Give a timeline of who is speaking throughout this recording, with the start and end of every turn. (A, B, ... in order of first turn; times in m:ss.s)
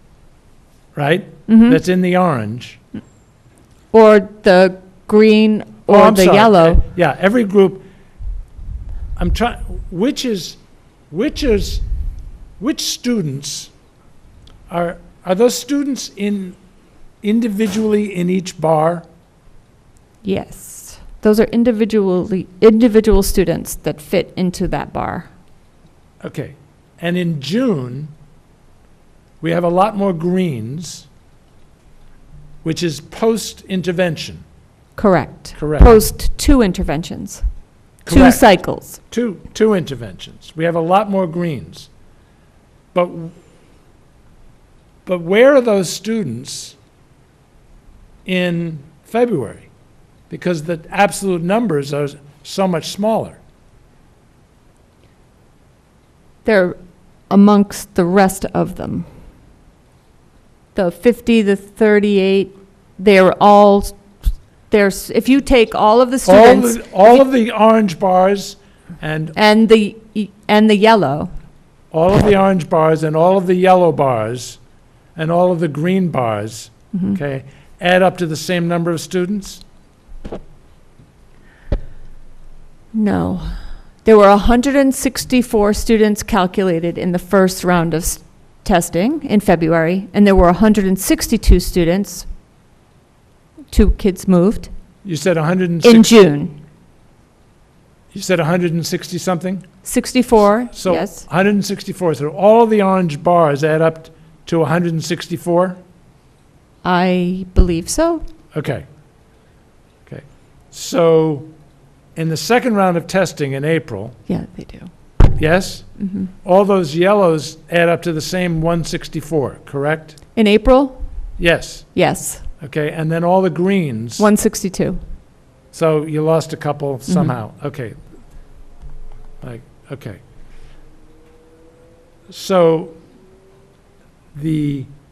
0:00.9-0:02.8 A
0:01.5-0:01.8 B
0:03.9-0:06.8 B
0:05.9-0:07.8 A
0:09.2-0:10.6 A
0:11.1-0:11.8 A
0:12.6-0:13.7 A
0:14.7-0:16.6 A
0:17.2-0:19.0 A
0:20.2-0:25.3 B
0:26.2-0:28.1 A
0:29.4-0:31.1 A
0:32.6-0:34.4 A
0:35.0-0:37.4 B
0:35.5-0:36.0 A
0:38.0-0:41.9 A
0:38.1-0:39.0 B
0:42.9-0:43.4 A
0:45.0-0:46.8 A
0:48.2-0:49.7 A
0:50.3-0:53.4 A
0:56.4-0:56.8 B
0:57.3-0:59.1 B
1:00.7-1:04.1 B
1:04.7-1:07.2 B
1:06.2-1:09.4 A
1:09.4-1:11.3 B
1:11.9-1:14.6 A
1:15.2-1:19.6 A
1:16.9-1:17.2 B
1:22.9-1:32.3 B
1:33.7-1:34.7 B
1:35.0-1:36.1 A
1:35.8-1:36.6 B
1:38.1-1:39.7 A
1:39.8-1:41.2 B
1:40.7-1:45.8 A
1:46.8-1:48.2 B
1:48.5-1:48.8 A
1:50.0-1:51.5 A
1:52.2-1:54.2 A
1:54.3-1:54.9 B
1:55.4-2:00.2 A
1:56.0-1:56.3 B
2:00.4-2:01.1 B
2:01.4-2:02.0 A
2:01.9-2:02.5 B
2:02.6-2:04.3 A
2:04.2-2:05.0 B
2:05.7-2:08.0 A
2:07.1-2:07.3 B
2:09.4-2:10.2 A
2:12.3-2:13.0 A
2:14.3-2:14.9 A